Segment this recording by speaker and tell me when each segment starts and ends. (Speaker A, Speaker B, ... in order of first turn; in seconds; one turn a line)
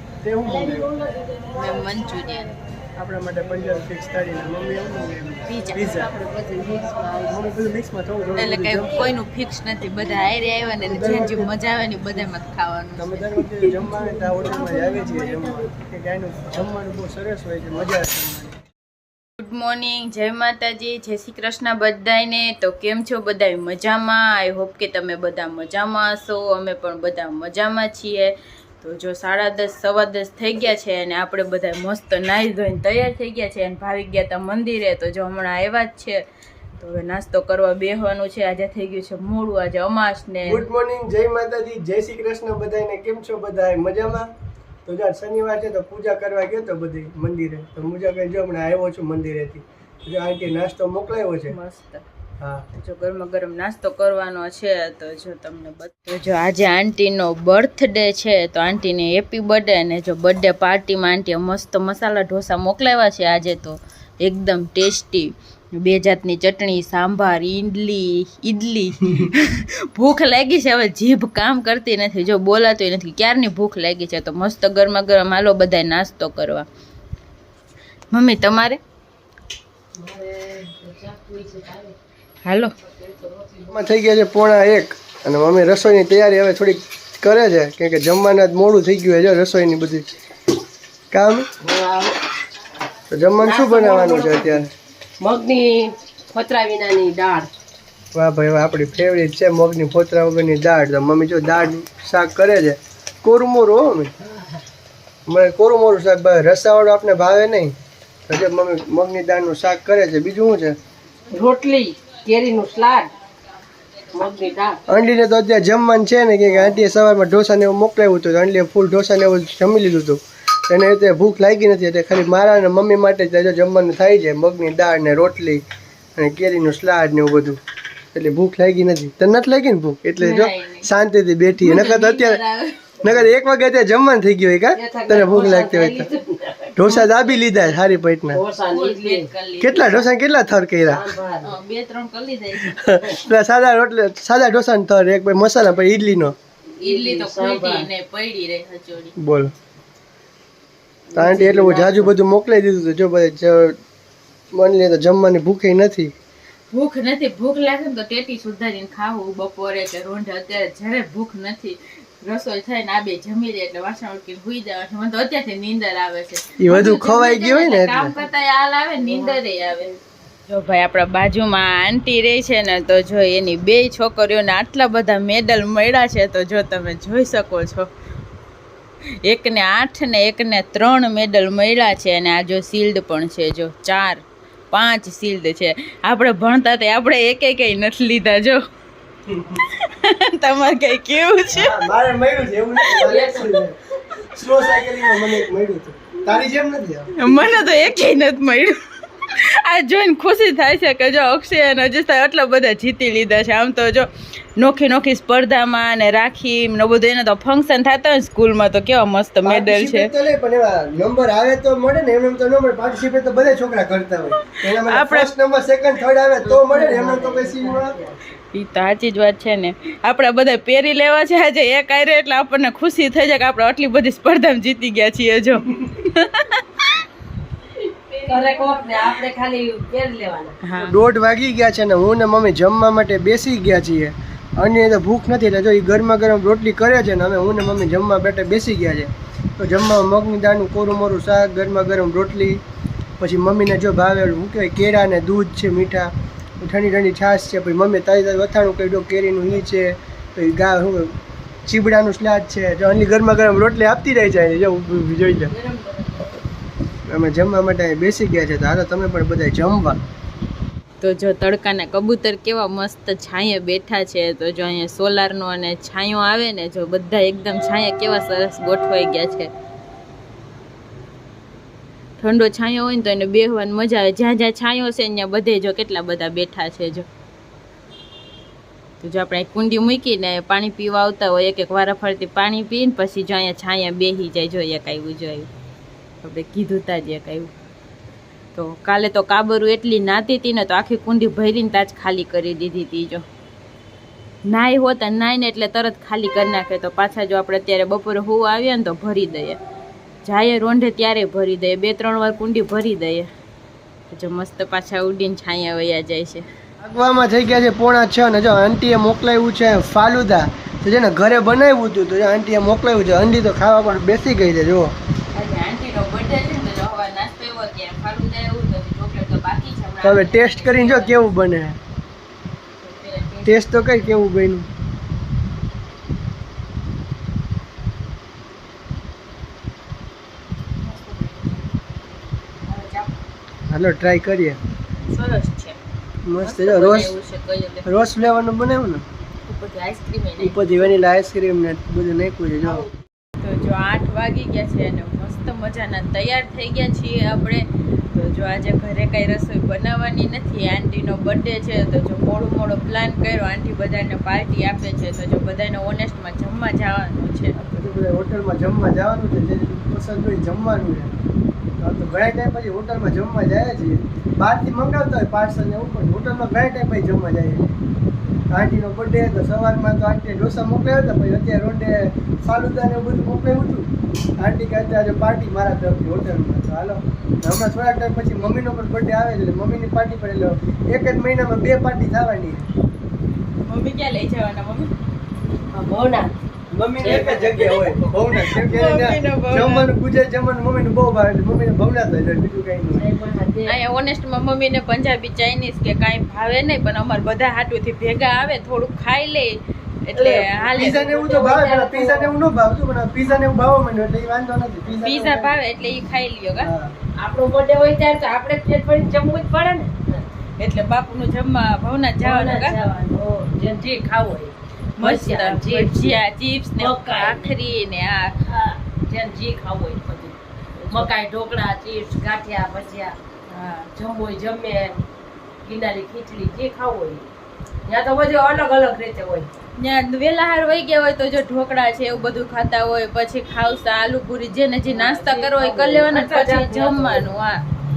Speaker A: 0.2-0.9
Speaker B: 1.5-2.5
Speaker A: 3.0-6.1
Speaker C: 5.5-7.5
Speaker A: 7.3-9.0
Speaker B: 8.4-13.3
Speaker A: 10.8-11.5
Speaker A: 13.0-18.6
Speaker B: 19.4-36.2
Speaker B: 36.8-40.6
Speaker A: 40.5-44.3
Speaker A: 44.9-51.5
Speaker B: 51.5-52.0
Speaker A: 52.4-52.6
Speaker B: 52.7-76.7
Speaker B: 78.1-78.8
Speaker C: 79.9-81.9
Speaker B: 82.4-82.7
Speaker C: 82.8-83.8
Speaker A: 83.7-90.1
Speaker A: 91.1-91.5
Speaker C: 91.6-92.2
Speaker A: 93.1-94.7
Speaker C: 93.4-94.6
Speaker C: 95.2-97.5
Speaker A: 98.1-104.1
Speaker A: 105.3-107.7
Speaker A: 108.3-110.8
Speaker C: 111.3-113.1
Speaker C: 114.1-114.8
Speaker A: 114.9-125.6
Speaker C: 116.5-116.8
Speaker A: 126.2-127.6
Speaker A: 128.1-132.4
Speaker B: 130.2-130.9
Speaker B: 131.6-132.9
Speaker A: 133.0-136.1
Speaker C: 134.7-137.1
Speaker A: 136.8-138.4
Speaker C: 138.3-139.3
Speaker B: 138.6-140.1
Speaker A: 139.6-141.0
Speaker C: 140.8-141.6
Speaker B: 141.4-142.8
Speaker A: 142.6-146.3
Speaker B: 146.8-149.1
Speaker C: 146.8-147.9
Speaker A: 149.2-149.5
Speaker C: 151.1-152.1
Speaker A: 151.1-153.8
Speaker A: 154.5-156.1
Speaker B: 156.7-169.9
Speaker A: 166.6-168.1
Speaker C: 169.0-169.4
Speaker B: 170.5-177.9
Speaker B: 179.2-188.6
Speaker A: 189.3-189.6
Speaker B: 189.5-191.8
Speaker A: 191.5-197.6
Speaker C: 192.9-193.6
Speaker B: 197.1-210.1
Speaker A: 209.4-217.9
Speaker B: 214.5-215.3
Speaker C: 216.4-218.2
Speaker B: 218.5-227.0
Speaker B: 227.8-229.2
Speaker C: 228.3-230.6
Speaker B: 230.6-231.0
Speaker A: 230.8-242.6
Speaker A: 243.2-251.1
Speaker A: 251.7-255.5
Speaker B: 255.5-256.3
Speaker A: 257.1-260.0
Speaker B: 261.0-269.5
Speaker B: 272.2-277.1
Speaker B: 279.0-285.5
Speaker B: 286.2-287.5
Speaker B: 288.5-293.2
Speaker B: 294.5-299.6
Speaker B: 300.2-303.3
Speaker B: 304.1-306.4
Speaker A: 306.8-314.9
Speaker B: 315.3-321.2
Speaker A: 320.0-321.8
Speaker B: 322.8-323.7
Speaker A: 323.4-324.7
Speaker B: 330.9-331.5
Speaker B: 332.7-333.1
Speaker A: 333.7-334.6
Speaker B: 335.1-335.8
Speaker A: 336.2-337.1
Speaker B: 336.4-337.9
Speaker A: 337.8-339.0
Speaker B: 339.4-340.8
Speaker A: 340.4-342.9
Speaker B: 343.4-357.6
Speaker A: 357.6-361.2
Speaker A: 361.8-367.7
Speaker A: 368.5-373.9
Speaker A: 374.4-382.6
Speaker B: 383.6-384.9
Speaker C: 385.7-386.3
Speaker A: 386.7-393.0
Speaker C: 387.0-388.0
Speaker B: 388.3-389.9
Speaker C: 392.9-393.8
Speaker B: 393.6-401.1
Speaker A: 400.2-405.6
Speaker C: 400.9-402.3
Speaker B: 404.9-406.7
Speaker A: 406.6-406.9
Speaker C: 407.2-410.3
Speaker B: 410.6-412.8
Speaker C: 412.2-416.2
Speaker B: 415.0-418.4
Speaker C: 416.8-417.5
Speaker C: 418.5-420.4
Speaker B: 420.8-421.1
Speaker C: 420.9-423.1
Speaker B: 423.5-423.9
Speaker C: 423.9-425.0
Speaker C: 425.6-427.3
Speaker C: 427.9-429.5
Speaker B: 429.8-437.6
Speaker C: 434.9-437.2